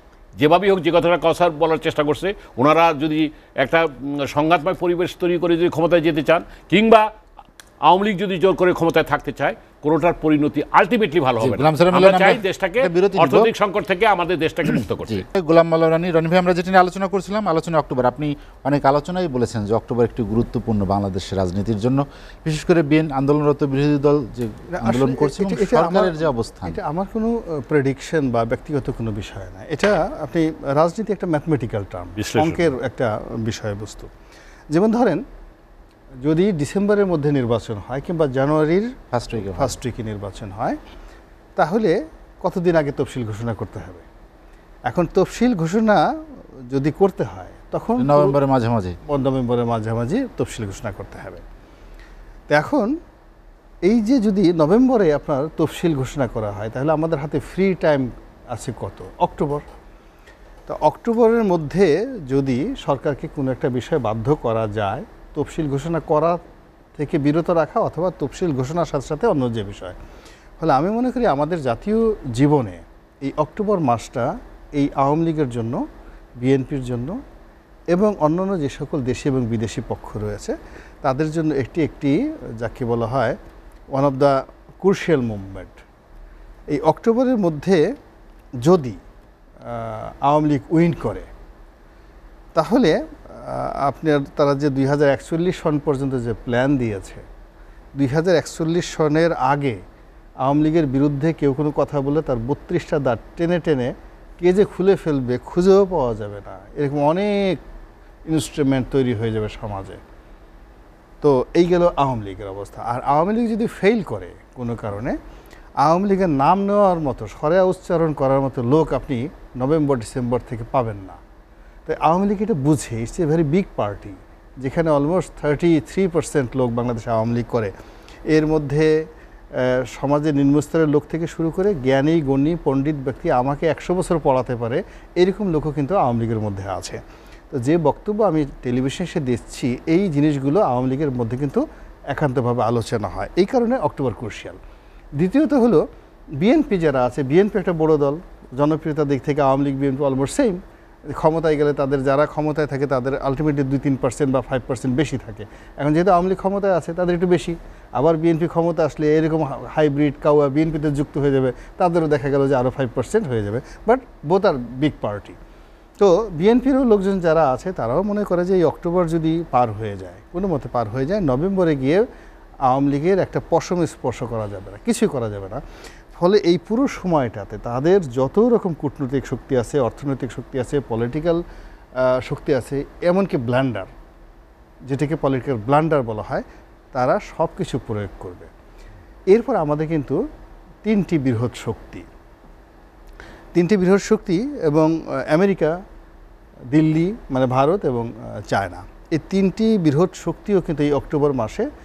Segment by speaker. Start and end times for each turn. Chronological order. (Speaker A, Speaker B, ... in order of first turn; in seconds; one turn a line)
Speaker A: 0.4-7.1
Speaker A: 7.8-15.2
Speaker B: 11.4-13.5
Speaker B: 14.7-26.8
Speaker C: 24.7-34.1
Speaker A: 32.2-32.7
Speaker C: 34.7-35.2
Speaker C: 36.2-40.8
Speaker B: 39.1-39.8
Speaker C: 41.6-44.0
Speaker C: 44.9-46.0
Speaker C: 46.7-48.4
Speaker B: 48.0-49.0
Speaker C: 49.0-51.4
Speaker C: 52.5-52.9
Speaker C: 53.9-59.6
Speaker C: 60.7-66.4
Speaker C: 67.0-70.0
Speaker C: 70.6-75.8
Speaker C: 76.4-77.2
Speaker C: 77.9-83.4
Speaker C: 83.9-85.8
Speaker C: 86.7-87.8
Speaker C: 88.6-89.0
Speaker C: 89.6-91.3
Speaker C: 92.5-97.2
Speaker C: 98.0-99.8
Speaker C: 100.4-107.6
Speaker C: 108.3-110.0
Speaker C: 111.2-115.2
Speaker C: 115.8-121.2
Speaker C: 121.9-127.7
Speaker C: 128.3-128.9
Speaker C: 129.5-137.0
Speaker C: 137.5-144.6
Speaker C: 145.2-145.8
Speaker C: 146.4-165.4
Speaker C: 166.0-172.1
Speaker C: 172.7-175.6
Speaker C: 176.1-181.4
Speaker C: 182.0-183.9
Speaker C: 184.9-188.5
Speaker C: 189.3-190.2
Speaker C: 190.8-192.1
Speaker C: 193.6-195.8
Speaker C: 196.7-201.7